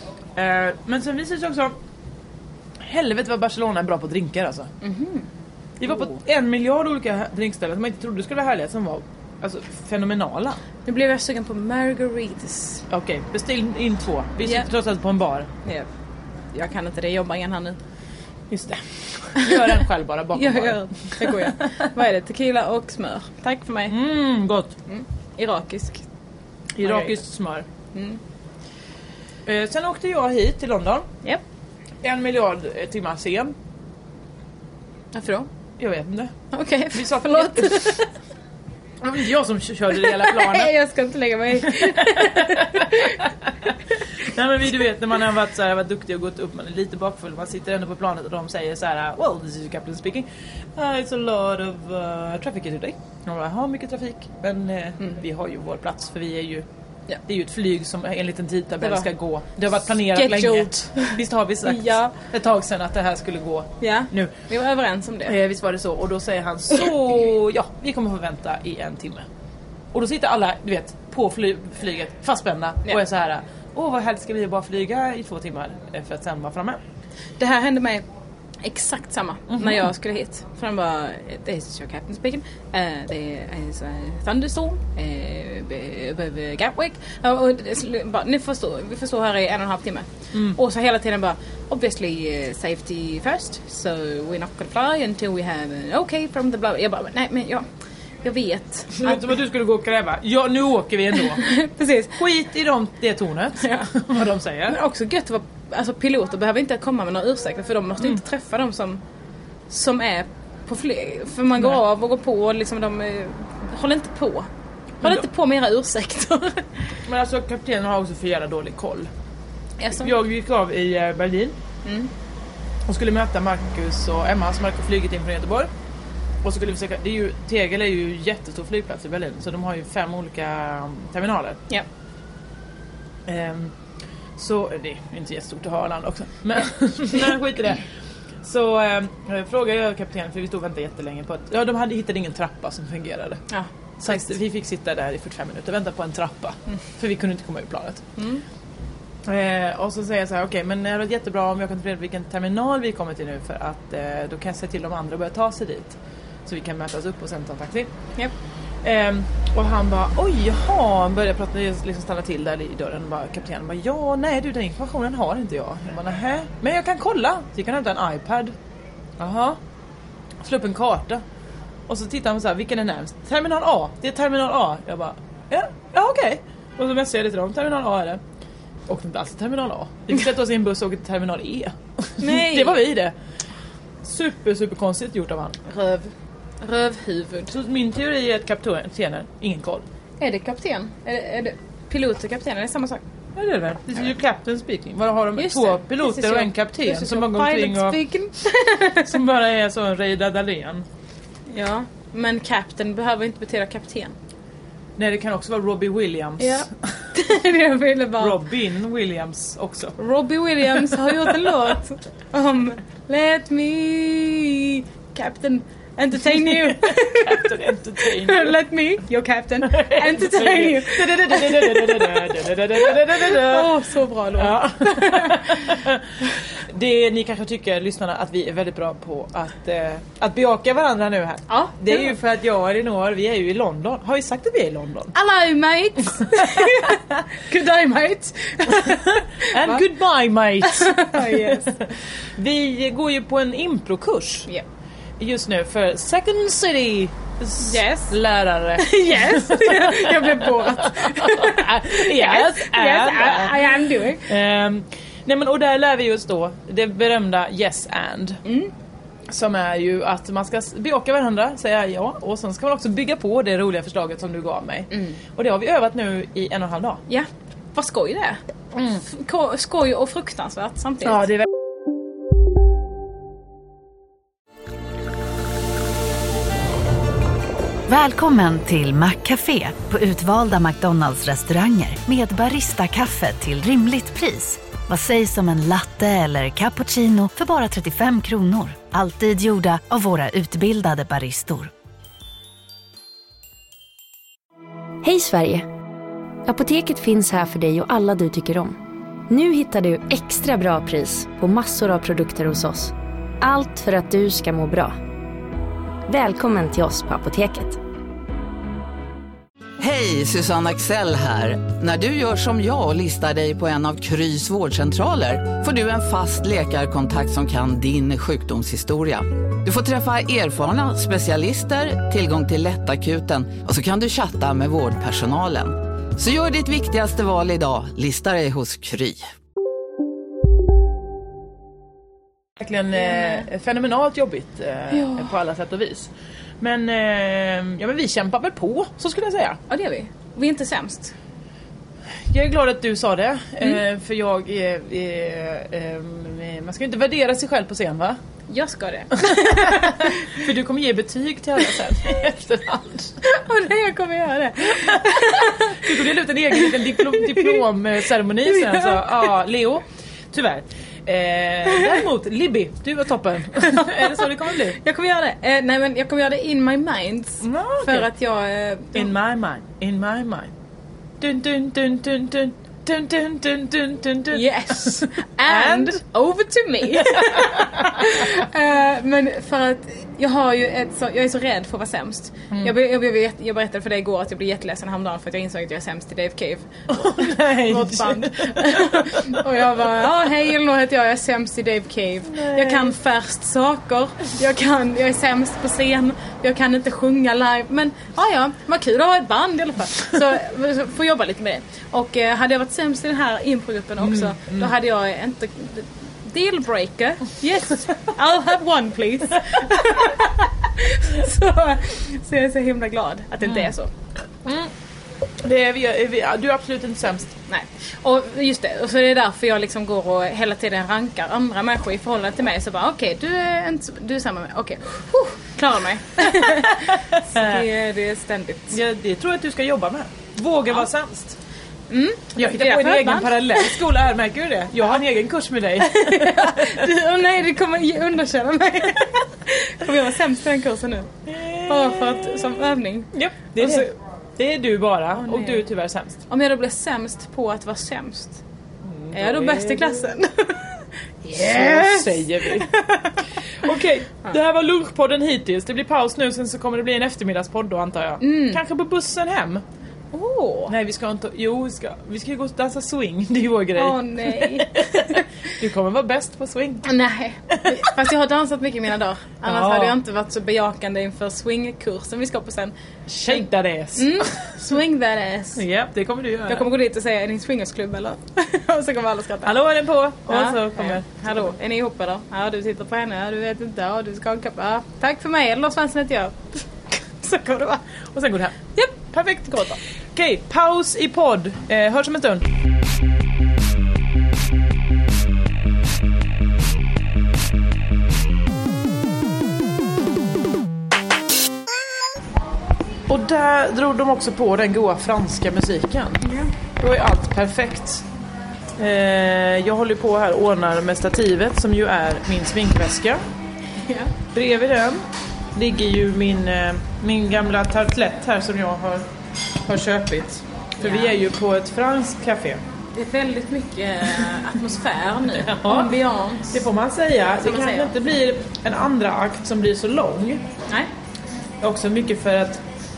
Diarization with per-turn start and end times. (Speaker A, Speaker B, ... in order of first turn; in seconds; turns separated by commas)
Speaker A: 0.3-1.8, Speaker A: 2.8-4.7, Speaker B: 4.8-5.3, Speaker A: 5.8-10.6, Speaker B: 10.9-12.8, Speaker A: 12.9-15.5, Speaker B: 16.5-17.8, Speaker A: 18.5-21.5, Speaker B: 19.4-19.8, Speaker B: 20.4-24.0, Speaker A: 23.9-24.7, Speaker B: 24.9-26.0, Speaker A: 26.8-27.7, Speaker B: 26.8-27.2, Speaker B: 27.9-28.2, Speaker A: 29.5-31.1, Speaker A: 32.0-33.5, Speaker B: 35.1-35.5, Speaker A: 35.8-36.3, Speaker B: 36.5-38.1, Speaker A: 36.9-38.0, Speaker A: 39.0-40.7, Speaker B: 40.0-43.2, Speaker A: 41.7-43.1, Speaker A: 44.2-56.7, Speaker A: 57.3-64.4, Speaker B: 58.8-59.1, Speaker B: 60.1-62.1, Speaker B: 63.8-65.4, Speaker A: 65.3-69.3, Speaker A: 69.9-76.8, Speaker B: 77.4-78.0, Speaker B: 78.6-97.7, Speaker A: 79.5-79.9, Speaker A: 90.3-90.6, Speaker B: 98.2-99.3, Speaker A: 99.0-101.4, Speaker B: 101.3-102.2, Speaker A: 102.2-104.8, Speaker B: 103.6-103.9, Speaker B: 104.7-109.0, Speaker B: 109.7-114.5, Speaker B: 115.0-116.9, Speaker A: 117.1-119.1, Speaker B: 119.8-120.1, Speaker A: 120.0-121.5, Speaker B: 121.8-122.1, Speaker A: 122.9-125.7, Speaker A: 126.4-131.6, Speaker A: 133.3-133.7, Speaker A: 134.4-137.8, Speaker A: 138.4-143.4, Speaker B: 143.5-144.2, Speaker A: 144.0-148.1, Speaker B: 148.2-148.4, Speaker A: 149.3-157.9, Speaker A: 158.8-168.6, Speaker A: 169.2-169.6, Speaker A: 170.4-171.2, Speaker A: 171.9-178.2, Speaker A: 178.9-183.1, Speaker B: 182.2-182.9, Speaker A: 184.0-185.6, Speaker B: 185.7-187.5, Speaker A: 187.5-189.8, Speaker B: 190.2-193.0, Speaker A: 193.4-198.0, Speaker B: 195.4-199.1, Speaker A: 199.0-200.8, Speaker B: 201.5-204.2, Speaker A: 205.0-206.7, Speaker B: 206.4-208.4, Speaker A: 208.2-209.9, Speaker B: 210.0-222.3, Speaker A: 216.4-218.6, Speaker A: 219.7-223.7, Speaker B: 222.8-225.8, Speaker A: 224.4-235.1, Speaker B: 231.5-232.1, Speaker B: 235.1-239.8, Speaker A: 238.9-244.5, Speaker B: 240.6-241.7, Speaker A: 245.2-258.4, Speaker B: 247.6-248.2, Speaker B: 248.8-254.3, Speaker B: 258.4-258.7, Speaker A: 259.3-267.0, Speaker B: 264.9-265.2, Speaker B: 267.1-268.4, Speaker A: 268.8-269.0, Speaker B: 269.1-271.3, Speaker A: 271.1-271.5, Speaker C: 277.9-291.7, Speaker D: 295.0-295.7, Speaker D: 296.5-298.8, Speaker D: 299.3-305.0, Speaker D: 306.1-307.8, Speaker E: 309.8-329.2, Speaker A: 332.6-339.6, Speaker B: 333.1-333.4, Speaker B: 334.9-335.3, Speaker B: 339.7-341.1, Speaker A: 342.3-348.2, Speaker B: 348.5-350.4, Speaker A: 349.2-353.1, Speaker B: 353.2-355.9, Speaker A: 354.8-364.8, Speaker B: 356.7-357.6, Speaker B: 358.5-359.1, Speaker B: 363.6-369.1, Speaker A: 367.4-368.1, Speaker A: 368.9-370.5, Speaker A: 371.2-376.0, Speaker B: 374.3-413.9, Speaker A: 376.9-378.1, Speaker A: 386.9-389.4, Speaker A: 392.3-392.9, Speaker A: 404.0-404.7, Speaker A: 413.4-413.7, Speaker A: 414.4-414.7, Speaker A: 415.4-417.3, Speaker B: 417.5-428.8, Speaker A: 426.4-426.7, Speaker A: 427.3-427.7, Speaker A: 428.7-431.4, Speaker B: 431.9-433.8, Speaker A: 432.4-436.9, Speaker B: 435.8-441.1, Speaker A: 441.3-442.4, Speaker B: 441.7-443.9, Speaker A: 443.1-446.2, Speaker B: 445.2-445.6, Speaker B: 446.3-448.4, Speaker A: 448.9-450.0, Speaker B: 449.1-453.2, Speaker A: 451.3-452.7, Speaker A: 453.6-459.6, Speaker B: 458.2-458.6, Speaker B: 460.1-460.7, Speaker A: 460.7-466.9, Speaker B: 463.8-465.3, Speaker B: 466.8-472.7, Speaker A: 467.5-467.9, Speaker A: 469.4-470.0, Speaker A: 473.1-474.3, Speaker B: 474.0-475.6, Speaker A: 475.6-476.7, Speaker B: 476.5-479.6, Speaker A: 479.4-481.5, Speaker B: 480.3-487.8, Speaker A: 488.1-488.6, Speaker B: 488.8-489.8, Speaker A: 490.1-492.5, Speaker A: 503.1-506.3, Speaker B: 506.2-506.5, Speaker A: 506.8-508.1, Speaker A: 508.8-513.2, Speaker B: 513.8-514.1, Speaker A: 514.3-515.0, Speaker A: 515.5-519.0, Speaker A: 519.6-522.6, Speaker B: 520.8-521.1, Speaker B: 523.0-526.7, Speaker A: 525.4-526.0, Speaker A: 526.5-530.4, Speaker B: 527.4-527.9, Speaker A: 531.6-532.6